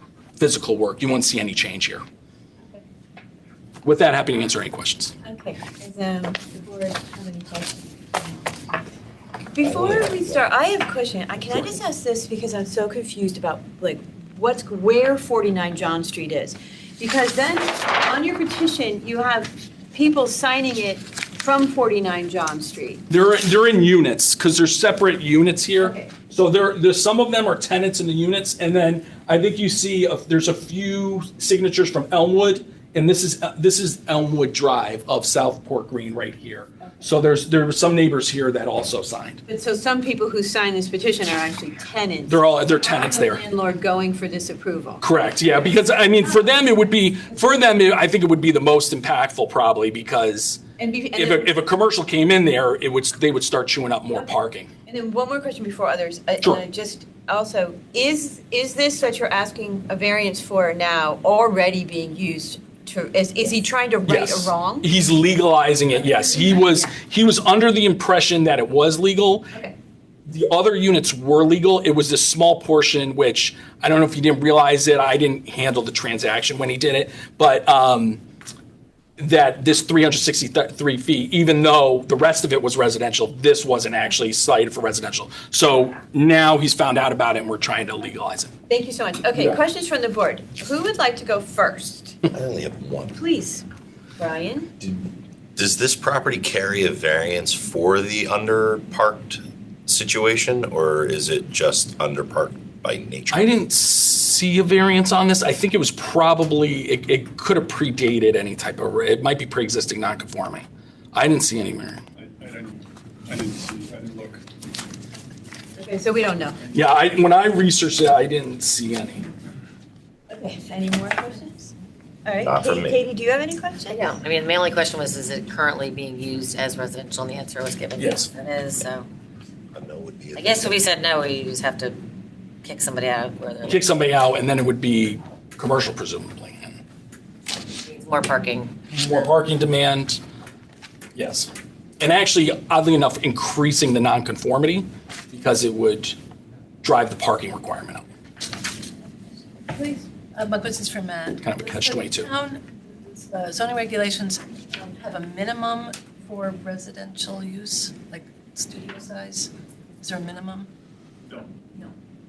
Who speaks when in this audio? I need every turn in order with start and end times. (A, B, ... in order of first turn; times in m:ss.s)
0:00.4-0:02.0 A
0:03.8-0:05.1 A
0:05.2-0:08.4 B
0:09.5-0:23.0 B
0:09.6-0:10.5 C
0:23.1-0:39.4 A
0:25.8-0:26.1 B
0:39.4-0:45.0 B
0:42.3-0:43.4 A
0:45.0-0:50.6 A
0:50.8-0:51.5 B
0:51.1-0:54.7 A
0:54.8-1:04.9 B
1:04.0-1:09.5 A
1:10.3-1:18.2 A
1:19.2-1:28.5 A
1:28.7-1:32.2 B
1:32.3-1:33.2 C
1:33.1-1:33.6 B
1:34.2-1:34.7 B
1:34.8-1:43.5 C
1:43.3-1:52.0 A
1:52.2-1:54.4 D
1:55.8-1:56.6 B
1:56.7-1:59.3 A
2:00.3-2:01.7 B
2:02.2-2:04.2 B
2:02.4-2:03.0 C
2:04.2-2:09.1 E
2:08.0-2:08.3 A
2:09.7-2:10.8 C
2:10.4-2:12.0 E
2:12.6-2:13.8 E
2:13.7-2:16.8 A
2:17.8-2:18.7 E
2:18.9-2:20.2 A
2:21.1-2:26.2 A
2:26.8-2:28.0 A
2:29.7-2:30.0 B
2:30.3-2:39.5 F
2:31.4-2:32.3 A
2:40.0-2:40.7 F